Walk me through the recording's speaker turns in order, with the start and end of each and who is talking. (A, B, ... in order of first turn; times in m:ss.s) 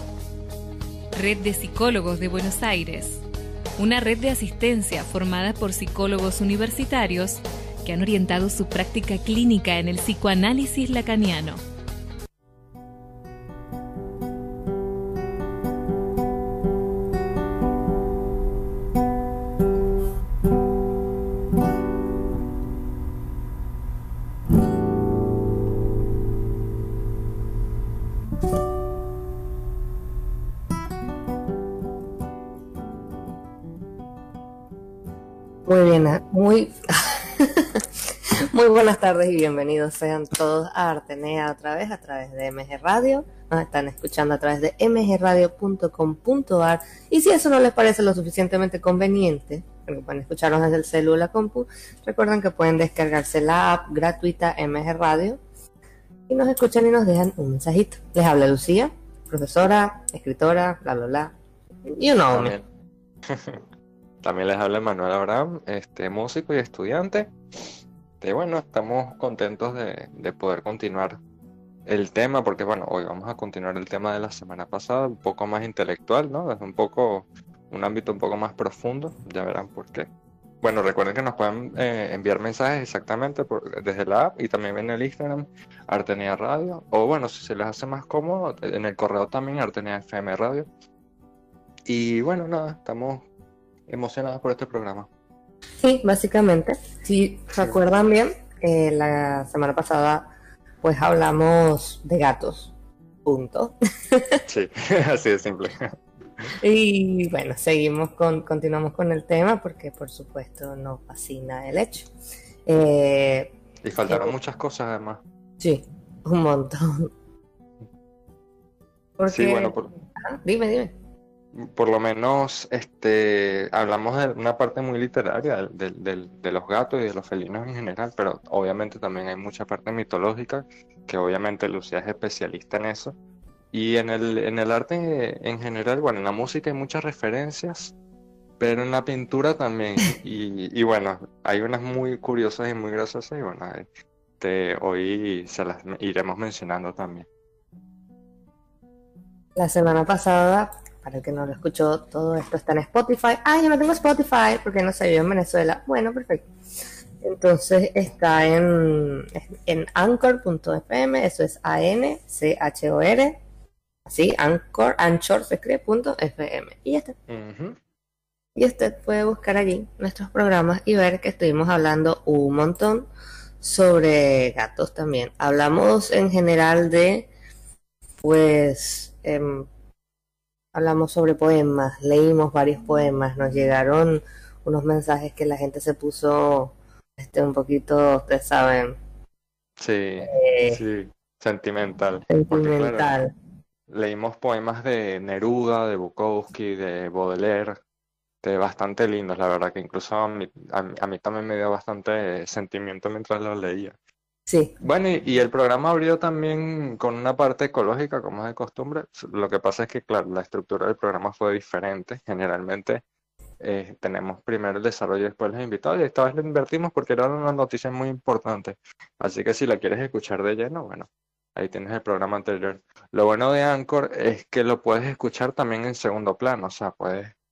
0:01.1-0:03.2 A
0:03.8-0:11.6 A
0:35.6-0:55.4 B
0:56.3-1:01.3 B
1:01.9-1:02.6 B
1:02.3-1:02.6 C
1:03.3-1:03.6 C
1:04.2-1:07.3 C
1:08.2-1:11.2 C
1:11.8-1:20.1 C
1:20.6-1:30.7 C
1:31.8-1:33.2 C
1:33.9-1:35.1 C
1:35.8-1:40.2 B
1:40.8-1:42.7 B
1:43.2-1:44.4 B
1:44.5-1:46.5 C
1:46.6-1:52.1 B
1:52.7-1:53.5 B
1:53.8-1:55.2 C
1:54.0-1:54.3 B
1:55.6-1:57.1 B
1:59.2-2:00.9 B
1:59.3-1:59.9 C
2:01.5-2:13.1 C
2:13.7-2:17.9 C
2:18.6-2:23.9 C
2:24.4-2:27.3 C
2:29.6-2:36.4 B
2:37.2-2:43.4 B
2:44.1-2:47.1 B
2:47.3-2:47.8 C
2:48.6-2:53.1 B
2:53.6-2:57.3 B
2:58.2-2:59.7 B
3:00.7-3:09.0 B
3:09.8-3:13.1 C
3:10.2-3:10.8 B
3:12.3-3:13.3 B
3:13.9-3:17.8 C
3:18.4-3:23.9 C
3:24.5-3:24.7 B
3:24.8-3:33.0 C
3:33.6-3:47.3 C